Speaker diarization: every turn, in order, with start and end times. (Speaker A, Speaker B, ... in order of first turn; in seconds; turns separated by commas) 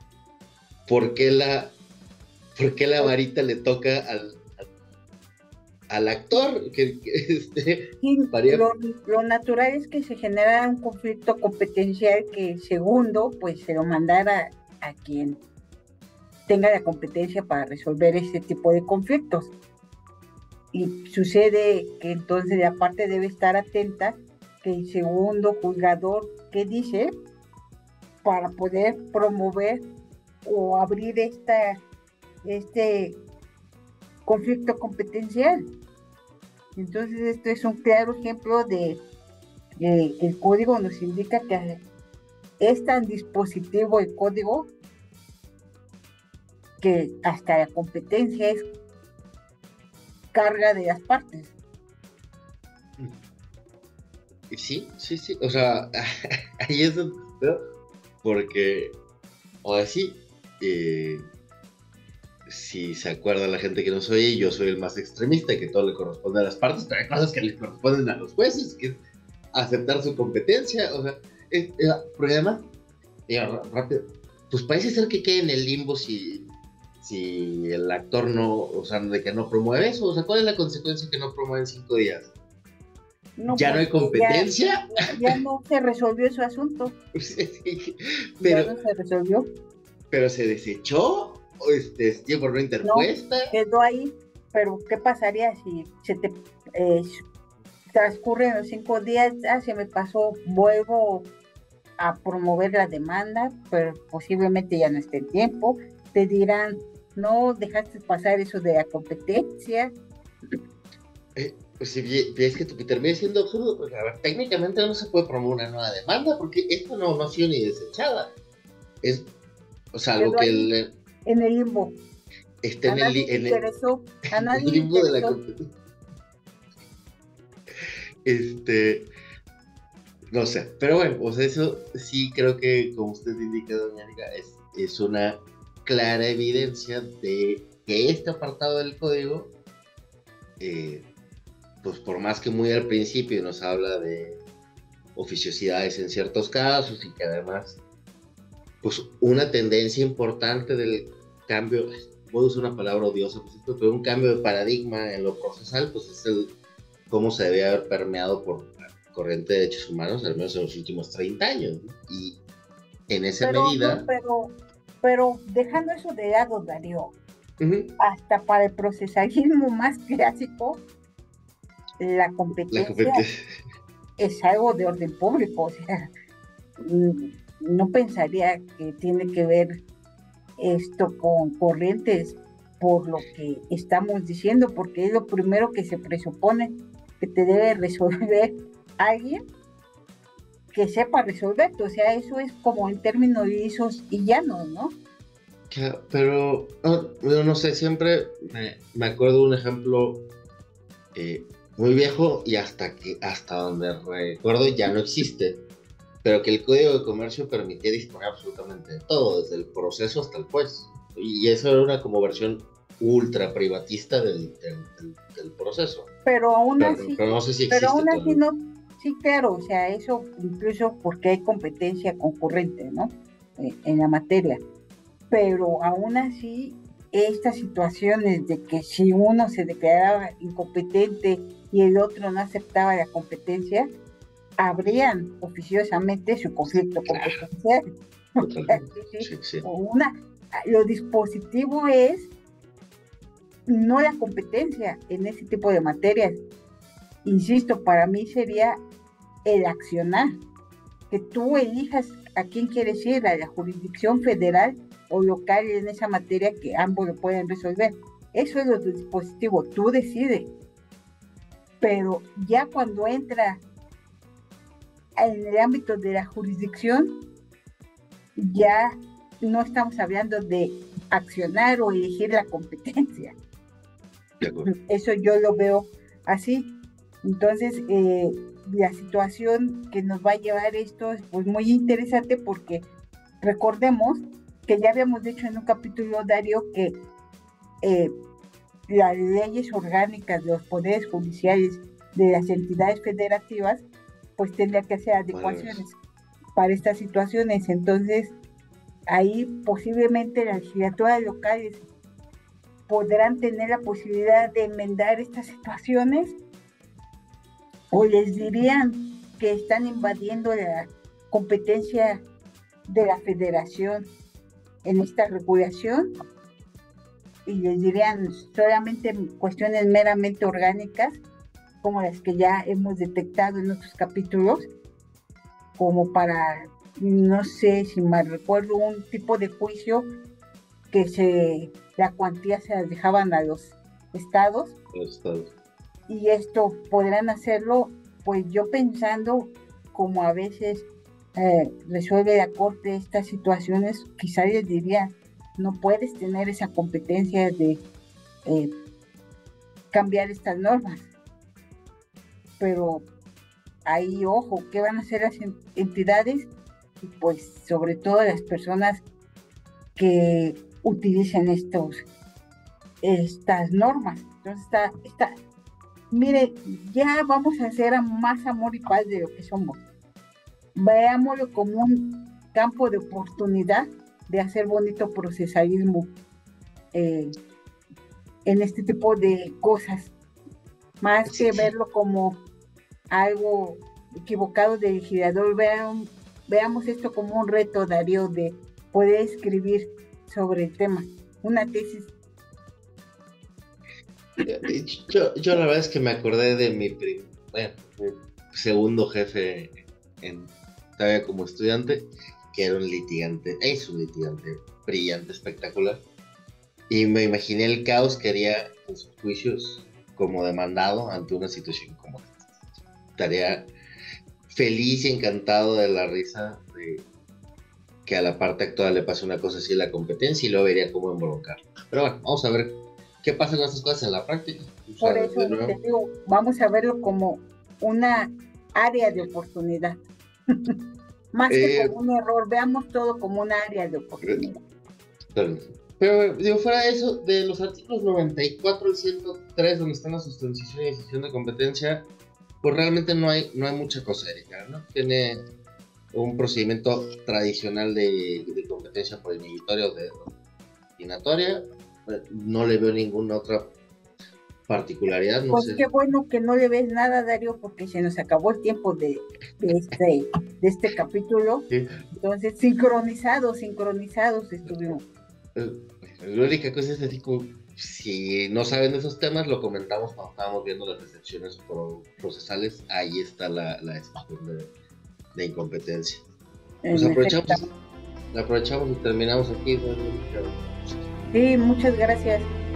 Speaker A: 0.9-1.8, Speaker A: 2.5-4.6, Speaker A: 5.9-8.6, Speaker B: 8.0-15.4, Speaker B: 16.5-19.5, Speaker B: 20.7-27.1, Speaker B: 28.2-29.8, Speaker B: 30.4-31.8, Speaker B: 32.4-33.2, Speaker B: 34.2-35.6, Speaker B: 36.8-39.0, Speaker B: 39.8-41.8, Speaker B: 42.6-44.7, Speaker B: 46.8-48.7, Speaker B: 50.3-51.5, Speaker A: 54.5-56.0, Speaker A: 56.6-57.6, Speaker A: 58.2-59.0, Speaker A: 59.6-61.2, Speaker A: 62.5-69.0, Speaker A: 69.5-72.7, Speaker A: 73.3-76.5, Speaker A: 77.0-82.3, Speaker B: 83.4-86.9, Speaker A: 83.5-84.8, Speaker A: 87.2-88.7, Speaker B: 88.4-89.5, Speaker A: 90.1-93.5, Speaker B: 92.8-97.2, Speaker B: 97.9-101.3, Speaker B: 102.0-109.9, Speaker A: 111.3-118.3, Speaker A: 119.0-119.3, Speaker A: 119.9-120.9, Speaker B: 120.2-120.7, Speaker B: 121.2-122.0, Speaker A: 122.6-123.6, Speaker B: 122.9-125.3, Speaker A: 124.4-125.6, Speaker A: 128.2-129.1, Speaker A: 130.3-139.5, Speaker A: 140.6-141.1, Speaker A: 141.8-144.4, Speaker A: 145.1-147.8, Speaker A: 148.8-156.5, Speaker A: 157.1-162.4, Speaker A: 163.1-164.1, Speaker B: 163.4-167.1, Speaker A: 167.6-167.9, Speaker B: 168.0-170.8, Speaker B: 172.0-173.2, Speaker A: 172.7-173.4, Speaker B: 174.2-175.8, Speaker B: 176.8-179.8, Speaker B: 180.6-189.4, Speaker B: 190.7-194.9, Speaker A: 195.7-200.2, Speaker A: 201.1-205.6, Speaker A: 206.2-216.1, Speaker B: 216.2-224.6, Speaker A: 216.8-218.4, Speaker B: 225.3-233.9, Speaker B: 234.6-237.8, Speaker A: 236.7-237.4, Speaker A: 238.4-239.7, Speaker B: 238.7-240.1, Speaker B: 240.6-242.3, Speaker B: 243.7-246.4, Speaker B: 247.2-248.8, Speaker B: 249.4-250.3, Speaker B: 251.1-260.5, Speaker B: 261.8-263.6, Speaker B: 265.2-267.1, Speaker B: 268.4-273.3, Speaker A: 274.4-274.7, Speaker B: 274.9-276.7, Speaker B: 277.2-282.9, Speaker B: 283.4-287.0, Speaker B: 287.8-288.1, Speaker B: 288.9-293.8, Speaker B: 294.4-296.0, Speaker A: 295.3-295.8, Speaker B: 296.6-298.3, Speaker B: 299.1-301.8, Speaker B: 302.9-306.4, Speaker B: 307.9-312.2, Speaker B: 312.9-314.1, Speaker B: 314.8-316.1, Speaker B: 317.4-321.2, Speaker B: 321.8-324.7, Speaker B: 325.8-330.1, Speaker B: 330.9-334.7, Speaker A: 334.9-335.5, Speaker B: 336.1-347.8, Speaker B: 348.4-348.7, Speaker B: 349.9-351.1, Speaker B: 352.6-353.1, Speaker B: 353.8-356.5, Speaker B: 357.0-359.0, Speaker B: 359.9-362.1, Speaker B: 363.0-365.3, Speaker B: 366.1-369.8, Speaker B: 370.7-376.1, Speaker B: 376.9-377.3, Speaker B: 378.4-380.1, Speaker B: 381.0-382.4, Speaker A: 381.2-381.7, Speaker B: 383.1-392.1, Speaker A: 394.4-406.0, Speaker A: 406.9-412.3, Speaker A: 413.1-413.7, Speaker A: 414.5-417.0, Speaker A: 418.1-425.7, Speaker B: 425.0-430.0, Speaker B: 431.3-434.6, Speaker A: 431.5-431.9, Speaker A: 435.3-442.1, Speaker A: 442.6-445.4, Speaker A: 446.1-450.3, Speaker A: 451.0-453.7, Speaker A: 454.7-455.9, Speaker B: 455.5-461.7, Speaker B: 462.2-465.0, Speaker A: 464.7-464.9, Speaker A: 465.5-474.7, Speaker A: 475.3-476.2, Speaker B: 476.8-477.6, Speaker A: 476.9-477.6, Speaker A: 478.3-480.6, Speaker B: 481.3-482.5